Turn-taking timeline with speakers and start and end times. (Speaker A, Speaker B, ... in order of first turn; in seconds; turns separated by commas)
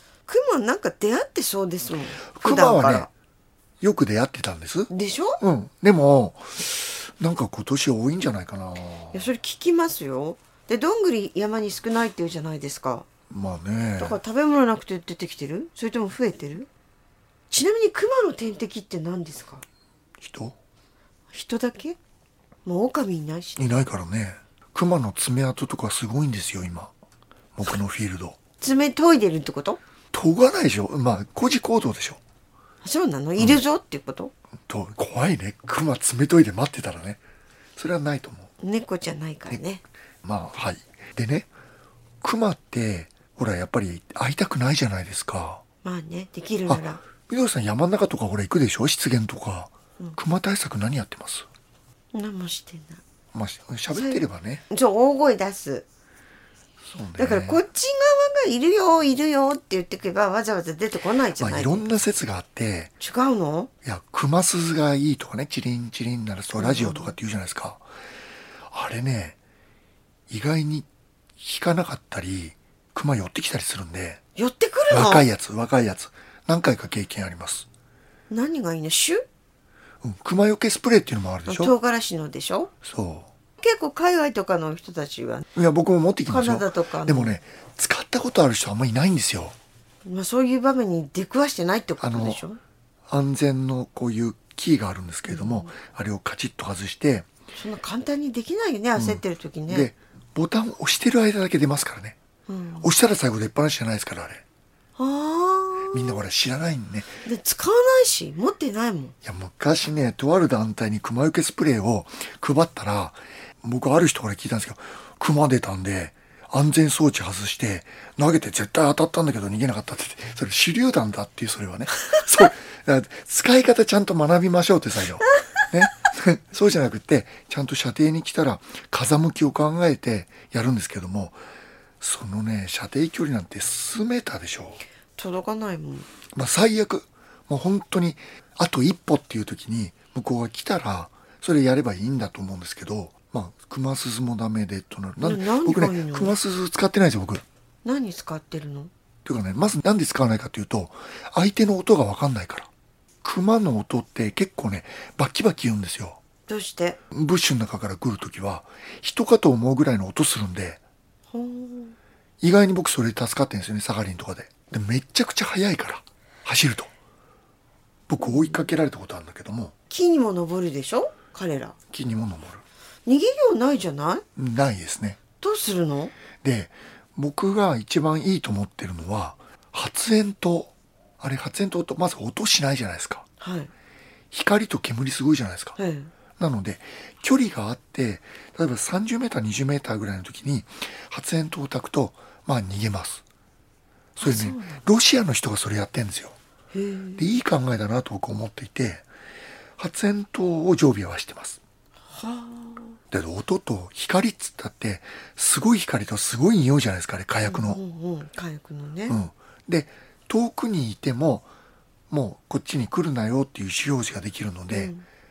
Speaker A: 0.3-3.1, Speaker B: 2.3-3.1, Speaker B: 3.8-9.3, Speaker A: 4.9-5.4, Speaker A: 9.1-13.1, Speaker B: 13.3-14.2, Speaker A: 14.0-16.7, Speaker A: 17.5-19.6, Speaker B: 20.2-20.6, Speaker A: 21.3-22.0, Speaker A: 22.6-23.6, Speaker B: 23.6-26.9, Speaker B: 27.6-28.4, Speaker A: 28.6-29.8, Speaker B: 30.1-32.2, Speaker A: 32.8-34.3, Speaker B: 33.4-33.6, Speaker B: 34.7-37.2, Speaker B: 37.8-38.5, Speaker A: 38.6-39.8, Speaker B: 40.2-41.5, Speaker B: 42.2-45.6, Speaker A: 45.8-47.0, Speaker B: 46.7-51.5, Speaker A: 52.1-53.0, Speaker B: 53.3-54.6, Speaker A: 53.9-55.9, Speaker B: 56.9-57.6, Speaker A: 57.2-61.9, Speaker B: 61.4-62.9, Speaker A: 63.0-63.7, Speaker B: 63.8-67.8, Speaker A: 66.6-67.2, Speaker B: 68.7-69.4, Speaker B: 70.3-70.9, Speaker B: 71.4-74.2, Speaker A: 74.4-75.2, Speaker B: 74.9-77.7, Speaker A: 78.3-79.2, Speaker B: 80.0-81.7, Speaker A: 81.5-82.7, Speaker B: 82.8-83.3, Speaker A: 83.6-85.5, Speaker B: 85.5-89.5, Speaker A: 86.3-87.3, Speaker A: 90.0-92.6, Speaker B: 92.0-92.4, Speaker B: 93.1-97.3, Speaker A: 95.3-95.7, Speaker A: 97.5-99.9, Speaker B: 99.0-102.2, Speaker A: 102.5-102.9, Speaker B: 102.8-104.4, Speaker A: 105.0-106.2, Speaker B: 105.9-107.2, Speaker A: 107.2-109.2, Speaker B: 109.2-131.4, Speaker B: 132.0-134.8, Speaker A: 135.2-136.1, Speaker B: 136.3-147.4, Speaker A: 145.2-146.4, Speaker A: 147.8-148.9, Speaker B: 149.2-152.7, Speaker B: 153.2-156.2, Speaker A: 156.5-157.0, Speaker B: 157.1-160.8, Speaker A: 161.3-162.0, Speaker B: 162.4-166.9, Speaker B: 168.1-169.7, Speaker A: 168.2-168.7, Speaker A: 169.9-171.8, Speaker B: 171.9-172.6, Speaker A: 173.1-174.2, Speaker B: 174.4-175.2, Speaker A: 175.4-176.1, Speaker B: 176.4-183.2, Speaker A: 183.4-183.7, Speaker B: 184.3-185.8, Speaker A: 185.8-186.1, Speaker B: 186.4-193.2, Speaker B: 194.2-196.3, Speaker A: 194.2-194.9, Speaker A: 196.7-197.2, Speaker B: 197.2-199.1, Speaker B: 199.8-201.6, Speaker A: 202.1-203.0, Speaker B: 203.1-207.8, Speaker A: 207.4-209.2, Speaker B: 209.1-211.5, Speaker B: 212.1-214.9, Speaker A: 214.7-215.0